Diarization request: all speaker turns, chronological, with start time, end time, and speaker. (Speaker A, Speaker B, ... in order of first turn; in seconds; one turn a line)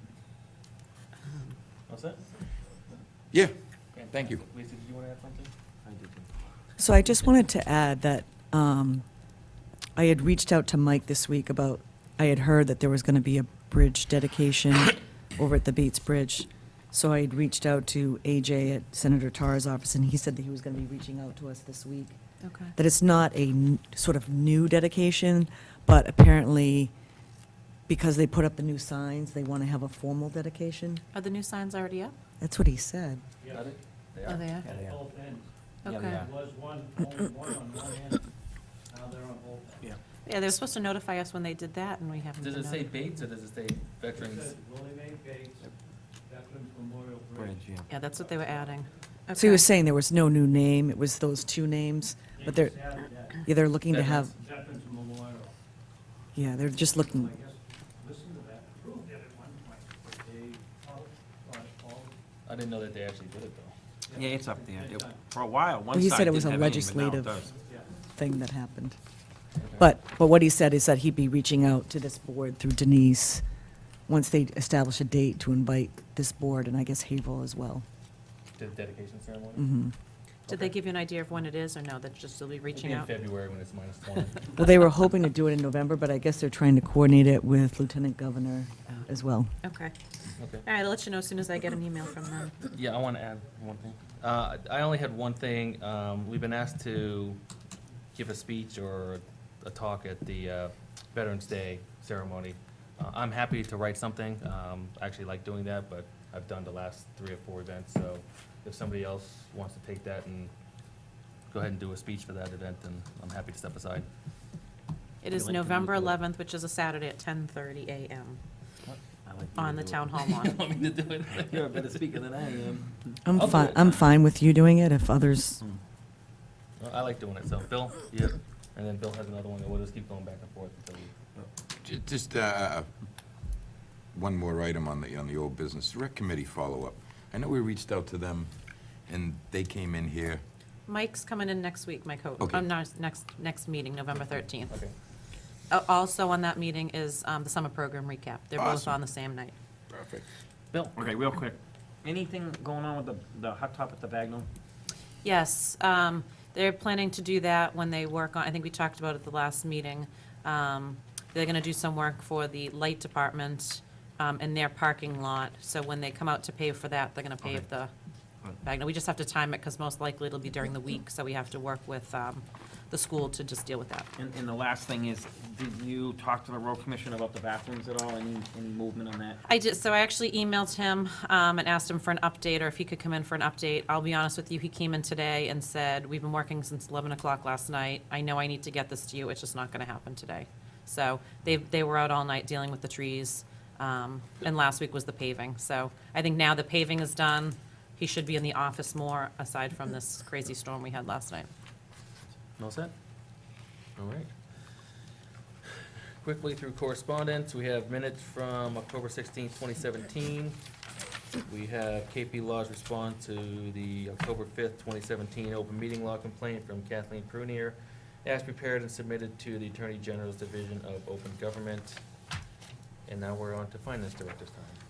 Speaker A: 1.9-2.2
Speaker A: 3.9-5.5
Speaker B: 4.1-4.4
Speaker C: 5.8-6.2
Speaker D: 6.8-9.0
Speaker D: 9.9-22.2
Speaker E: 22.4-22.7
Speaker D: 22.8-26.9
Speaker D: 27.9-31.0
Speaker E: 31.1-32.1
Speaker D: 32.4-33.2
Speaker F: 33.4-33.7
Speaker A: 33.5-34.4
Speaker E: 34.2-34.6
Speaker F: 34.6-35.5
Speaker C: 34.6-35.0
Speaker E: 35.8-36.2
Speaker C: 35.9-36.3
Speaker F: 36.1-38.3
Speaker F: 38.9-39.9
Speaker E: 40.2-42.9
Speaker A: 42.4-44.5
Speaker F: 44.1-45.7
Speaker F: 46.3-47.6
Speaker C: 47.4-47.9
Speaker E: 47.9-49.6
Speaker D: 49.4-52.8
Speaker F: 52.4-53.4
Speaker D: 53.4-54.3
Speaker A: 53.9-54.2
Speaker F: 54.2-55.5
Speaker D: 56.3-57.3
Speaker F: 56.9-62.1
Speaker A: 62.5-63.7
Speaker F: 64.1-65.2
Speaker C: 64.1-67.5
Speaker D: 65.9-67.4
Speaker F: 67.6-67.9
Speaker D: 68.1-69.0
Speaker A: 69.6-69.9
Speaker D: 69.8-73.4
Speaker D: 74.1-77.8
Speaker A: 78.6-79.6
Speaker D: 79.5-79.9
Speaker A: 80.5-80.7
Speaker E: 80.5-83.1
Speaker A: 82.7-84.6
Speaker D: 84.5-89.5
Speaker E: 89.6-89.9
Speaker A: 90.4-90.6
Speaker E: 90.6-92.6
Speaker A: 92.7-97.4
Speaker A: 98.1-110.5
Speaker A: 111.5-114.1
Speaker E: 115.2-118.4
Speaker C: 115.3-116.2
Speaker C: 118.9-120.0
Speaker E: 119.5-120.6
Speaker A: 120.2-121.7
Speaker C: 121.4-123.2
Speaker D: 123.2-125.6
Speaker A: 123.3-124.0
Speaker A: 126.8-131.1
Speaker B: 131.8-132.9
Speaker B: 134.1-138.5
Speaker B: 139.0-140.4
Speaker E: 140.9-144.7
Speaker B: 142.4-142.6
Speaker E: 145.7-149.5
Speaker B: 148.6-149.0
Speaker B: 149.9-150.2
Speaker C: 150.7-154.5
Speaker E: 155.2-167.9
Speaker E: 168.6-174.1
Speaker C: 174.2-179.4
Speaker E: 179.4-201.5
Speaker A: 202.6-202.9
Speaker A: 204.0-204.3
Speaker A: 206.2-210.6
Speaker A: 211.4-222.0
Speaker A: 223.1-224.8